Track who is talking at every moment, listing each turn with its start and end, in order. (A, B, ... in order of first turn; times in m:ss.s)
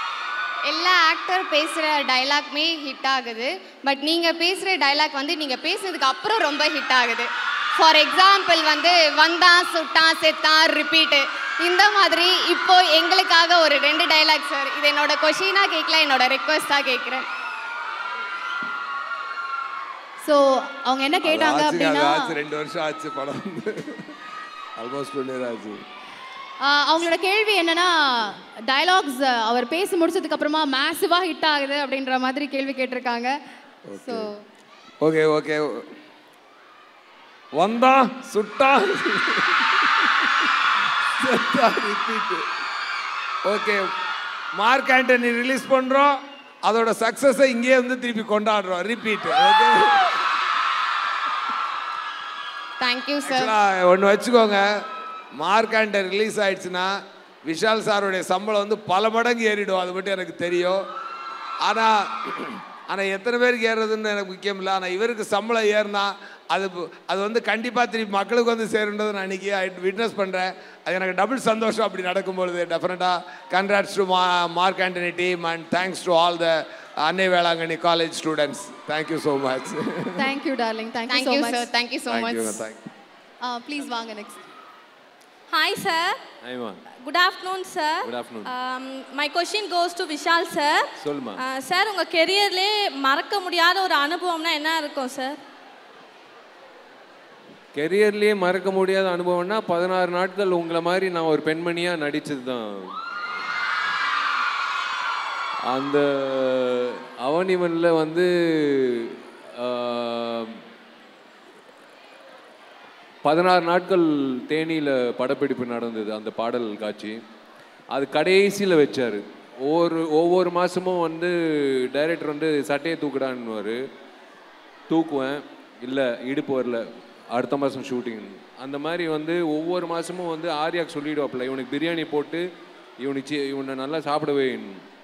0:00.7-0:17.3 A
0:20.2-0:22.3 B
0:21.2-0:24.1 C
0:24.8-0:25.8 C
0:26.6-0:33.3 B
0:33.9-0:34.3 C
0:34.0-0:34.4 B
0:35.0-0:35.9 C
0:37.6-0:40.0 C
0:41.2-0:42.4 C
0:43.4-0:43.8 C
0:44.6-0:50.2 C
0:52.8-0:53.5 A
0:53.2-0:54.7 C
0:55.4-1:00.8 C
1:01.6-1:20.2 C
1:20.2-1:21.7 B
1:21.1-1:22.6 A
1:22.1-1:22.8 C
1:23.4-1:24.4 B
1:25.5-1:26.2 D
1:26.4-1:26.8 E
1:27.0-1:35.4 D
1:28.0-1:28.5 E
1:31.0-1:31.4 E
1:37.8-1:42.9 E
1:45.7-1:50.6 E
1:53.2-1:57.2 E
1:57.9-2:03.8 E
2:04.9-2:12.4 E
2:13.0-2:14.8 E